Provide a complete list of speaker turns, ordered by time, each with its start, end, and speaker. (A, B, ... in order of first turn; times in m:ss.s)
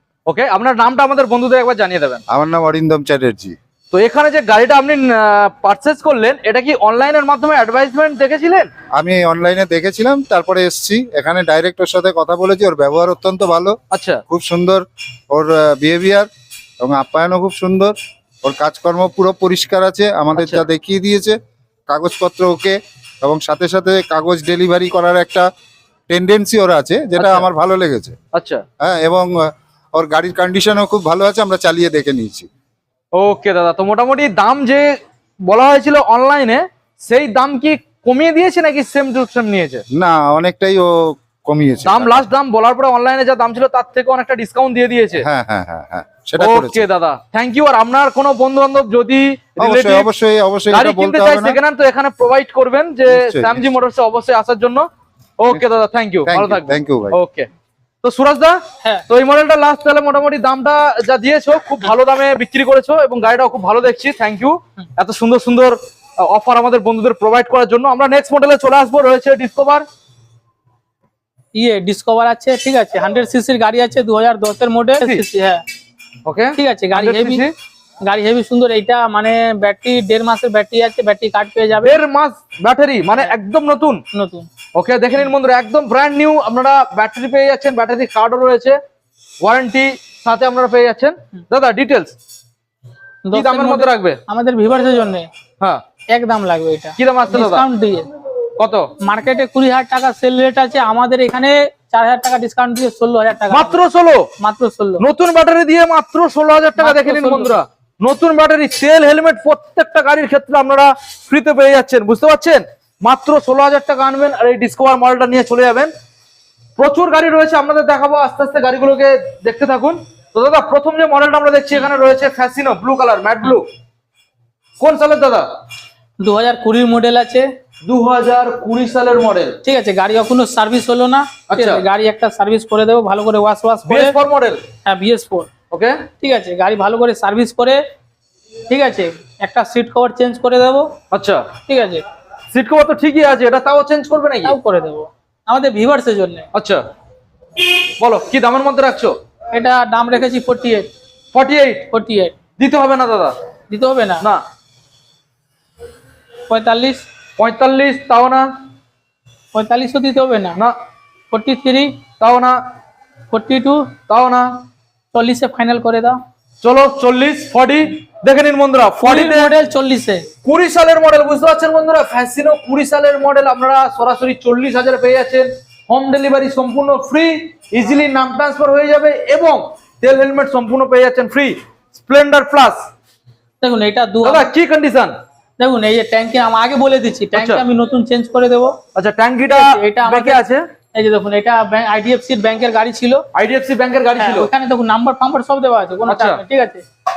0:00.3-0:02.2 A
0:02.3-0:03.6 B
0:03.9-0:08.7 A
0:08.9-0:13.8 B
0:13.9-0:14.2 A
0:14.3-0:16.3 B
0:16.8-0:21.4 B
0:20.4-0:20.6 A
0:21.9-0:25.5 B
0:26.1-0:28.1 B
0:27.2-0:27.5 A
0:28.3-0:28.6 A
0:28.8-0:32.5 B
0:33.1-0:35.0 A
0:35.5-0:39.8 A
0:39.9-0:42.2 B
0:41.8-0:45.2 A
0:45.2-0:46.8 B
0:46.4-0:50.1 A
0:49.6-0:51.6 B
0:50.7-0:54.9 A
0:53.1-0:53.7 B
0:55.4-0:57.5 A
0:56.2-0:57.2 B
0:58.0-1:09.8 A
1:11.6-1:15.6 C
1:16.2-1:17.5 A
1:16.5-1:17.4 C
1:18.0-1:22.0 C
1:21.8-1:24.0 A
1:24.1-1:24.5 C
1:24.7-1:28.8 A
1:29.4-1:32.1 A
1:33.3-1:35.3 C
1:33.3-1:34.2 A
1:36.1-1:38.1 C
1:37.0-1:37.6 A
1:38.6-1:38.9 A
1:39.0-1:43.8 C
1:43.5-1:44.3 A
1:44.4-1:45.0 C
1:45.0-1:55.9 A
1:46.8-1:47.6 C
1:56.8-2:03.7 A
2:04.8-2:05.5 A
2:06.2-2:07.5 C
2:07.8-2:09.6 A
2:09.6-2:14.1 C
2:11.5-2:11.8 A
2:13.8-2:14.6 A
2:14.8-2:15.5 C
2:15.7-2:16.0 A
2:16.2-2:17.8 C
2:18.7-2:20.9 C
2:21.1-2:21.4 A
2:21.7-2:22.0 C
2:22.5-2:24.6 A
2:24.4-2:26.5 C
2:26.5-2:26.8 A
2:28.0-2:29.2 A
2:29.5-2:30.9 C
2:31.3-2:31.9 A
2:31.9-2:32.4 C
2:32.6-2:33.3 A
2:33.7-2:34.2 C
2:36.5-2:37.0 C
2:37.4-2:38.5 A
2:39.5-2:40.6 C
2:41.3-2:42.0 C
2:42.2-2:42.6 A
2:43.3-2:44.0 C
2:44.1-2:44.6 A
2:45.1-2:46.2 C
2:46.6-2:49.5 A
2:49.0-2:50.3 C
2:50.4-3:02.9 A
3:03.6-3:04.5 C
3:04.2-3:05.1 A
3:05.6-3:08.8 C
3:07.3-3:07.6 A
3:08.9-3:10.6 A
3:09.5-3:10.4 C
3:10.9-3:13.2 C
3:13.3-3:14.5 A
3:14.2-3:16.8 C
3:16.1-3:16.4 A